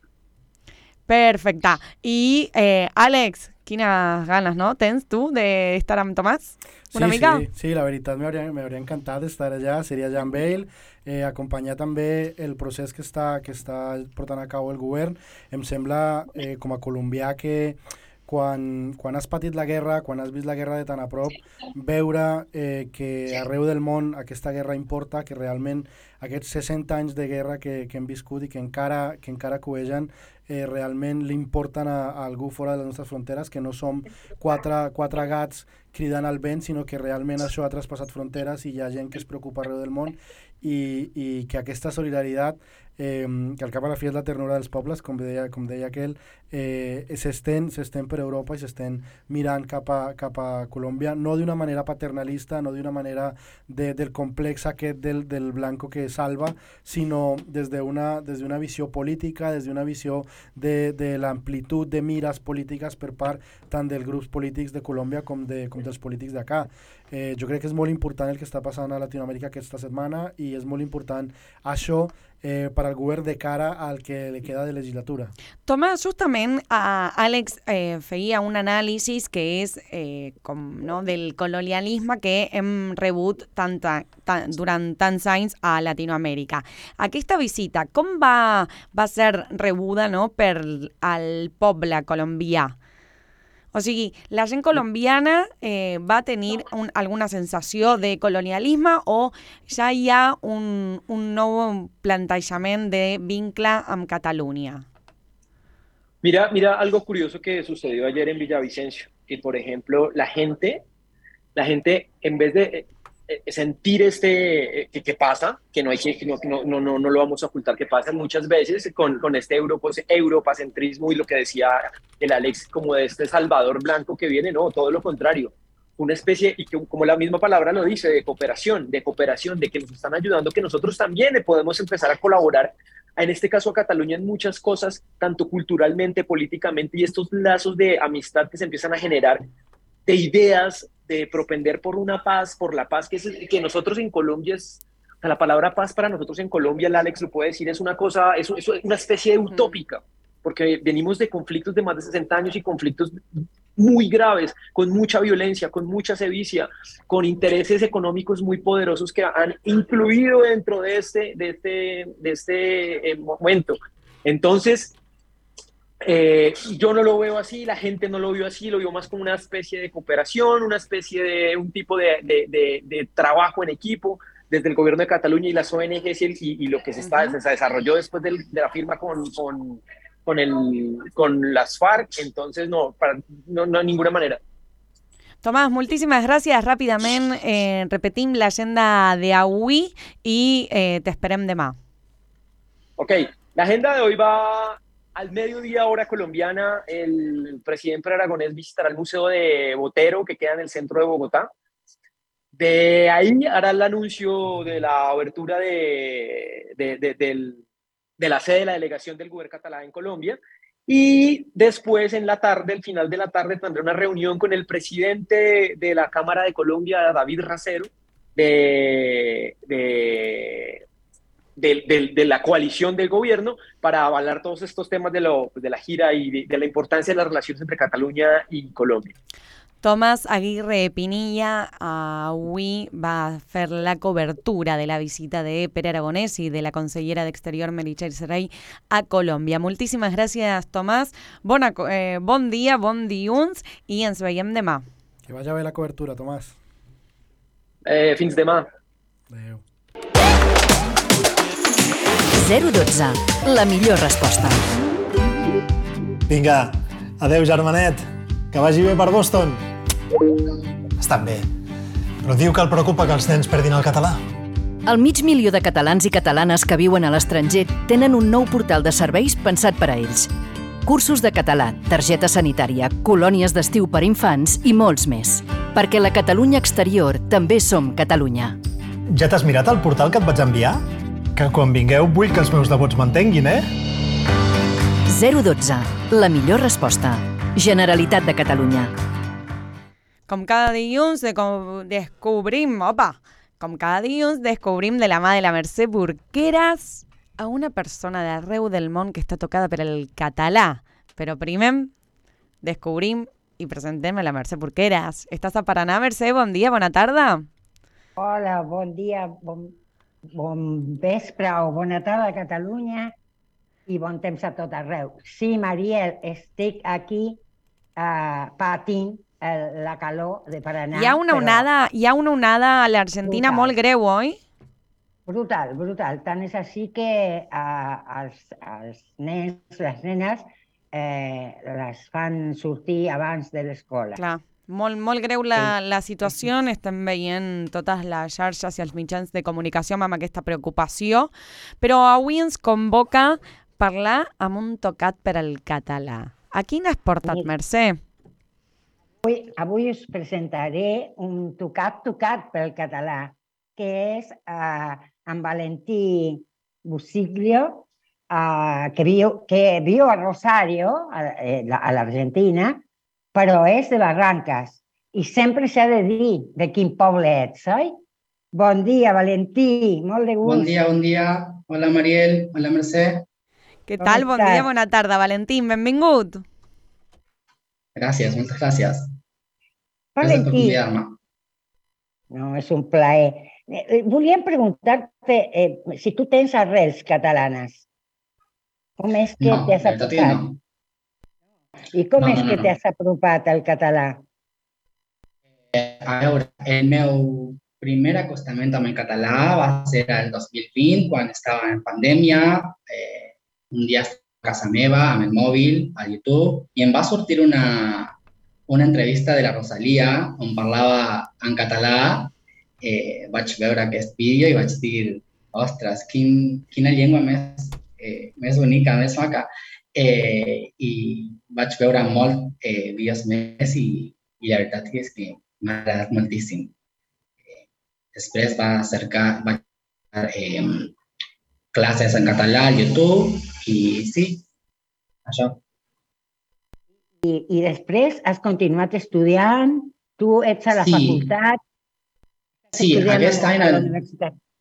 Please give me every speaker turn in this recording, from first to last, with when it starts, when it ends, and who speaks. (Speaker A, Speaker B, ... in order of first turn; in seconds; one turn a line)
Speaker A: 1.1-7.4
Speaker B: 6.9-75.3
Speaker A: 75.7-92.8
Speaker A: 93.7-104.9
Speaker C: 106.2-110.8
Speaker C: 111.6-139.5
Speaker C: 140.1-153.2
Speaker A: 149.5-149.8
Speaker C: 153.8-164.9
Speaker C: 166.0-184.4
Speaker A: 177.0-177.4
Speaker A: 185.4-191.8
Speaker C: 193.0-201.5
Speaker C: 202.6-207.6
Speaker C: 208.2-220.8
Speaker C: 221.6-229.2
Speaker A: 229.8-244.8
Speaker B: 245.2-246.6
Speaker C: 247.9-248.7
Speaker B: 249.3-249.6
Speaker D: 252.3-254.6
Speaker E: 256.3-259.6
Speaker E: 261.0-261.5
Speaker E: 262.2-264.2
Speaker D: 264.9-270.3
Speaker D: 270.8-278.6
Speaker E: 279.1-280.8
Speaker E: 281.4-283.6
Speaker D: 285.1-288.9
Speaker A: 290.3-301.9
Speaker A: 302.6-307.5
Speaker F: 308.2-309.8
Speaker F: 310.4-313.1
Speaker F: 313.9-317.4
Speaker F: 318.0-321.7
Speaker A: 320.9-324.4
Speaker F: 323.2-323.8
Speaker F: 325.3-334.2
Speaker A: 334.2-348.0
Speaker F: 349.2-362.8
Speaker F: 363.3-367.9
Speaker F: 368.5-370.8
Speaker G: 370.4-373.2
Speaker A: 373.9-376.4
Speaker F: 374.0-374.7
Speaker G: 377.9-379.1
Speaker F: 380.2-380.8
Speaker G: 380.2-381.2
Speaker F: 382.3-387.8
Speaker F: 389.0-390.4
Speaker G: 389.4-390.6
Speaker F: 391.9-394.2
Speaker G: 392.2-392.7
Speaker G: 395.7-408.1
Speaker G: 408.7-426.7
Speaker G: 428.1-429.6
Speaker G: 430.1-430.9
Speaker G: 431.7-434.5
Speaker G: 435.3-435.6
Speaker F: 437.2-441.6
Speaker G: 440.7-441.3
Speaker G: 442.7-443.9
Speaker F: 442.7-444.4